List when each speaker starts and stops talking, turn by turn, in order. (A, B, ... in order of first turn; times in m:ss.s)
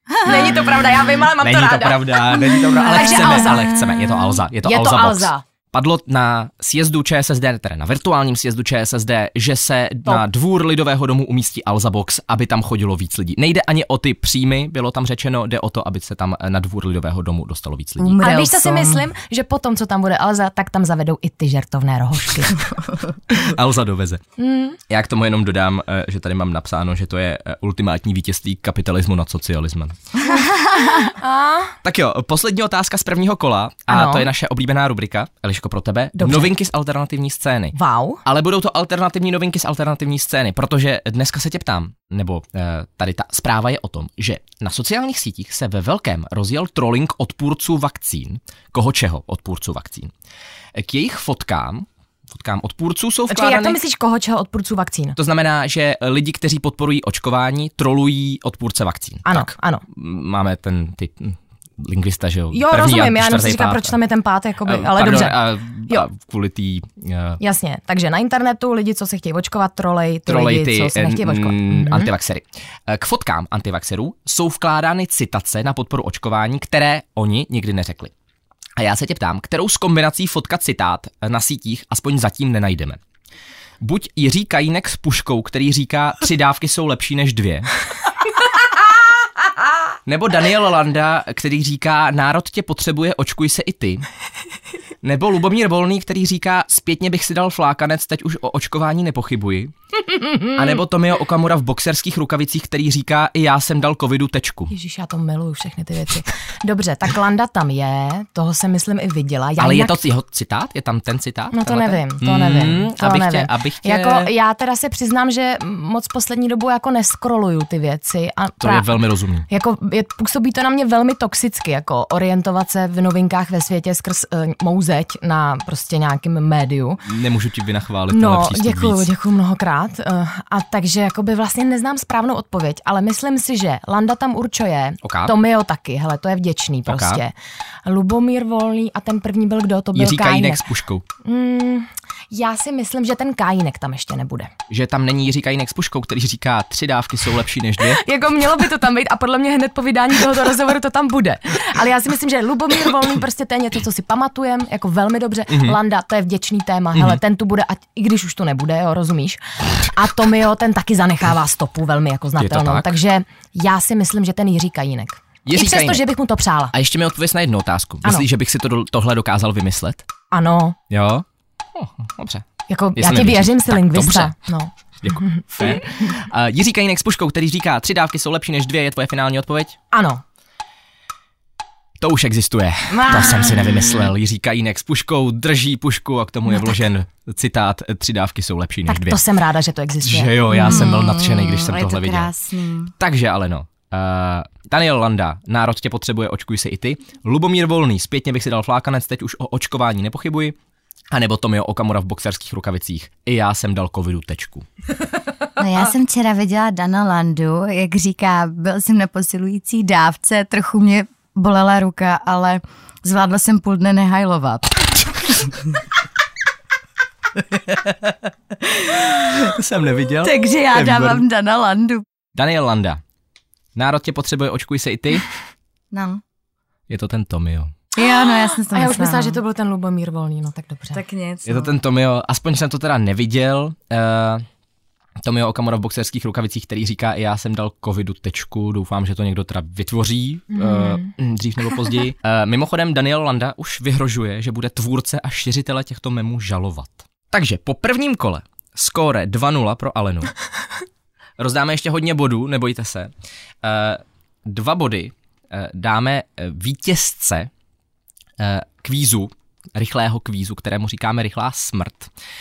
0:00.2-0:03.7 A
0:01.4-0:18.2 B
0:02.8-0:04.4 C
0:04.6-0:05.4 A
0:18.0-0:19.0 C
0:18.2-0:22.6 A
0:23.3-0:24.2 B
0:24.4-0:24.8 A
0:24.9-0:30.0 B
0:30.4-0:30.9 C
0:30.9-0:31.8 A
0:31.8-0:50.1 B
0:33.9-0:34.3 A
0:36.2-0:36.5 A
0:37.8-0:38.2 A
0:50.8-0:53.8 B
0:53.3-0:55.2 A
0:55.2-1:04.0 B
0:59.2-0:59.8 A
1:02.5-1:06.1 A
1:04.6-1:07.4 B
1:07.4-1:12.1 A
1:10.3-1:18.1 B
1:18.8-1:23.0 B
1:23.8-1:27.7 B
1:30.1-1:34.0 B
1:35.0-1:39.7 B
1:40.4-1:44.7 B
1:44.7-1:50.0 A
1:49.6-1:54.3 B
1:51.5-1:59.0 A
1:58.6-1:59.5 B
1:59.5-2:07.0 A
2:07.0-2:09.1 B
2:08.1-2:17.3 A
2:15.0-2:15.3 B
2:16.9-2:17.2 B
2:17.8-2:20.6 A
2:20.0-2:21.0 B
2:21.2-2:24.5 A
2:24.7-2:28.0 B
2:27.8-2:46.7 A
2:35.5-2:35.8 B
2:37.0-2:37.2 B
2:42.4-2:42.9 B
2:45.5-2:46.1 B
2:46.7-2:50.0 B
2:50.3-2:50.8 A
2:50.9-2:51.2 B
2:51.8-2:52.4 B
2:52.7-2:55.8 A
2:53.0-2:54.4 B
2:55.0-2:59.8 B
2:59.9-3:00.2 A
3:02.0-3:09.2 B
3:02.9-3:03.6 A
3:08.9-3:10.9 A
3:10.0-3:12.3 B
3:10.5-3:12.9 C
3:13.0-3:20.6 B
3:21.1-3:24.7 B
3:25.6-3:35.0 C
3:38.6-3:39.5 C
3:39.3-3:41.2 B
3:40.2-3:42.0 C
3:42.4-3:43.0 B
3:43.8-3:45.3 B
3:45.9-3:46.2 C
3:46.9-3:47.7 B
3:48.0-3:49.4 C
3:48.7-3:51.0 A
3:50.9-3:51.7 C
3:51.5-3:54.4 B
3:55.2-4:10.4 B
4:00.5-4:01.1 A
4:11.4-4:13.1 B
4:13.6-4:17.5 B
4:18.4-4:22.1 B